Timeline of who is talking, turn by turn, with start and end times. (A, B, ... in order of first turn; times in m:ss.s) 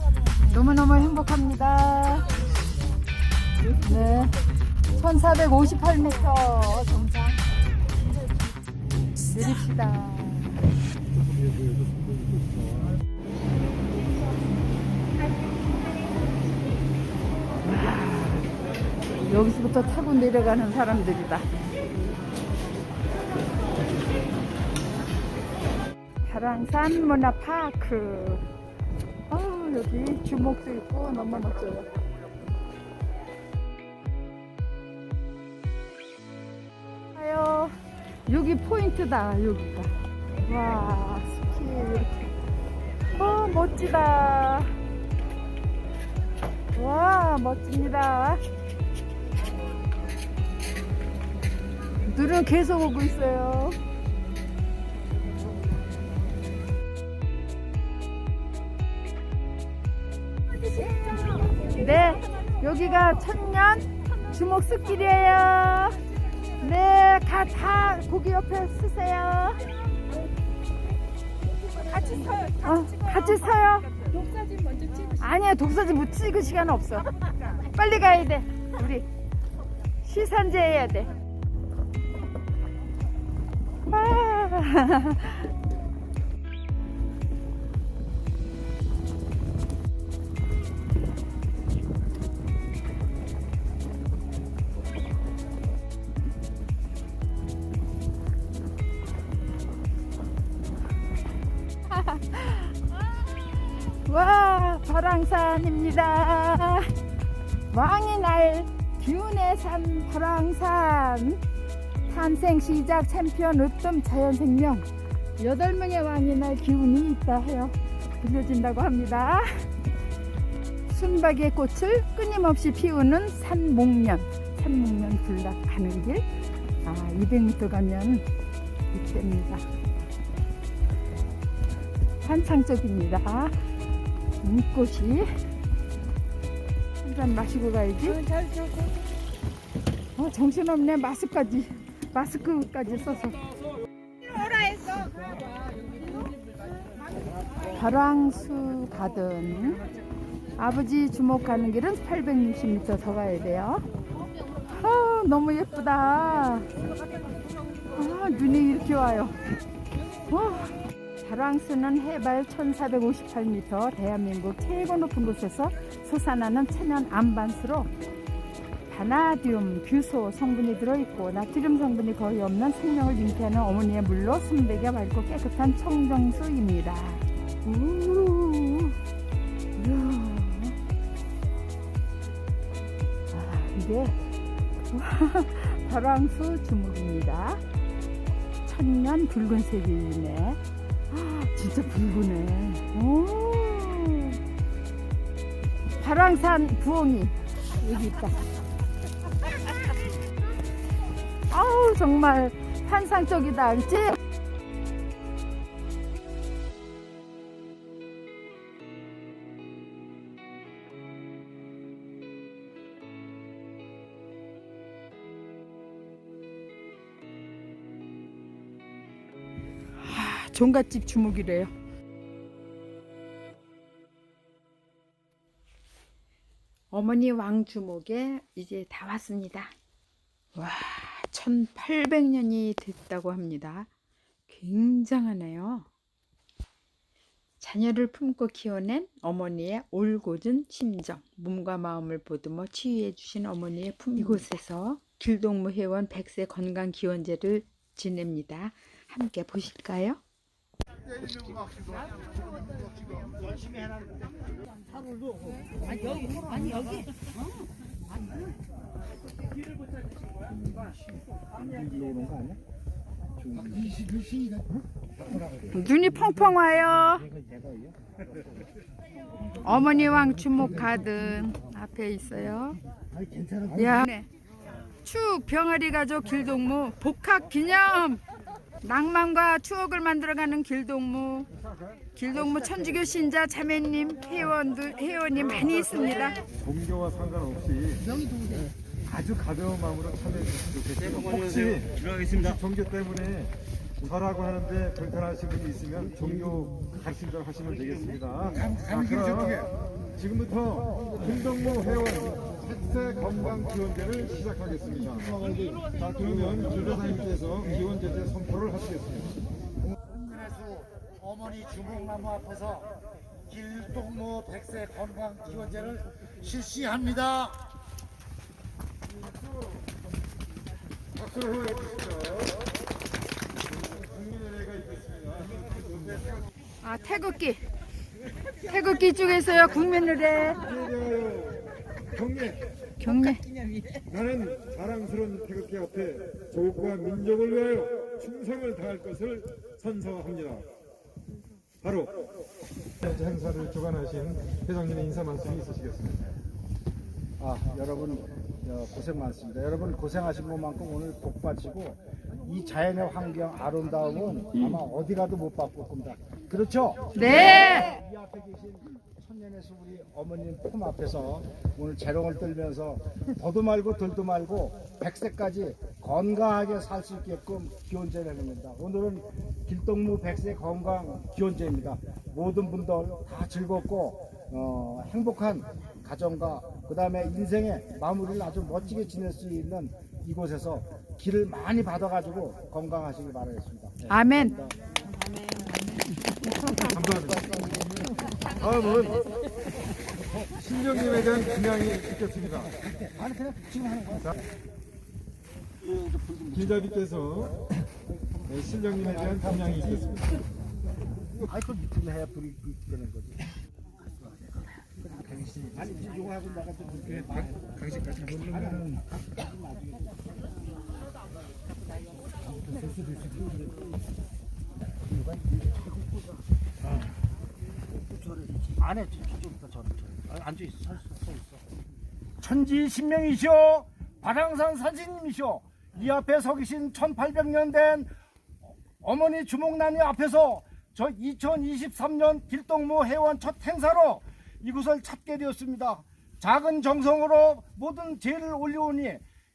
0:00.4-0:02.3 A
0:03.8-0:04.4 A
0:04.9-0:07.4 A
0:09.3-0:10.6 A
0:11.5-0:12.4 B
0:17.6-0:18.5 A
0:19.2-0:21.5 A
0:26.2-0:28.4 A
0:29.3-0:31.9 A
0:37.1-0:37.8 A
0:38.3-0:42.1 A
0:43.1-0:44.8 A
0:46.7-0:48.4 A
0:52.1-0:53.8 A
1:00.5-1:02.5 C
1:01.7-1:06.0 A
1:06.1-1:06.6 C
1:06.6-1:09.6 A
1:11.5-1:15.2 C
1:12.6-1:13.9 A
1:15.2-1:17.1 A
1:17.7-1:19.1 A
1:20.0-1:21.1 A
1:23.9-1:25.4 A
1:41.9-1:42.8 A
1:44.0-1:46.9 A
1:47.7-1:51.4 A
1:52.1-1:54.9 A
1:55.4-1:59.7 A
2:00.9-2:06.2 A
2:06.8-2:08.2 A
2:08.9-2:09.6 A
2:12.2-2:13.6 A
2:14.4-2:15.3 A
2:17.0-2:18.2 A
2:18.2-2:19.0 C
2:20.2-2:23.4 A
2:24.2-2:26.3 C
2:27.7-2:29.8 A
2:30.6-2:33.9 A
2:34.7-2:36.7 A
2:37.9-2:39.4 A
2:40.3-2:47.9 A
2:48.9-2:59.0 A
2:59.8-3:00.8 A
3:03.3-3:04.2 A
3:04.9-3:07.6 A
3:08.6-3:14.4 A
3:16.0-3:18.4 A
3:21.5-3:24.2 A
3:40.0-3:41.7 A
3:46.9-3:49.7 A
3:50.6-3:53.9 A
3:54.5-3:55.9 A
3:57.6-4:10.2 A
4:11.1-4:14.4 D
4:15.0-4:17.1 D
4:20.4-4:22.6 D
4:23.4-4:24.0 D
4:23.5-4:26.5 E
4:25.7-4:27.2 A
4:27.2-4:28.2 D
4:29.6-4:32.8 A
4:33.1-4:33.9 D
4:33.7-4:34.3 A
4:35.0-4:38.2 A
4:38.8-4:41.5 A
4:41.6-4:42.0 B
4:42.2-4:46.4 A
4:45.4-4:46.0 B
4:46.5-4:48.1 B
4:49.1-5:09.4 B
4:51.3-4:52.3 D
4:58.5-4:59.7 E
5:05.3-5:06.1 D
5:10.1-5:12.9 E
5:13.5-5:17.6 E
5:19.2-5:19.8 B
5:21.2-5:22.6 B
5:23.7-5:26.4 B
5:26.8-5:27.6 A
5:28.6-5:30.6 A
5:30.6-5:32.7 B
5:33.0-5:33.4 A
5:34.1-5:40.7 B
5:41.8-5:42.2 B
5:43.0-5:46.4 B
5:47.4-6:24.8 D
5:57.1-5:57.9 A
6:24.1-6:24.6 A
6:26.8-6:27.7 B
6:28.6-6:29.3 B
6:30.6-6:32.7 B
6:32.9-6:34.5 D
6:35.8-6:36.7 D
6:36.5-6:37.7 B
6:38.4-6:40.4 B
6:38.9-6:40.2 D
6:41.3-6:43.6 D
6:45.2-6:47.8 D
6:47.8-6:49.0 E
6:48.4-6:50.0 D
6:52.5-6:53.7 E
6:58.5-7:01.6 D
7:02.4-7:08.1 D
7:08.6-7:19.2 D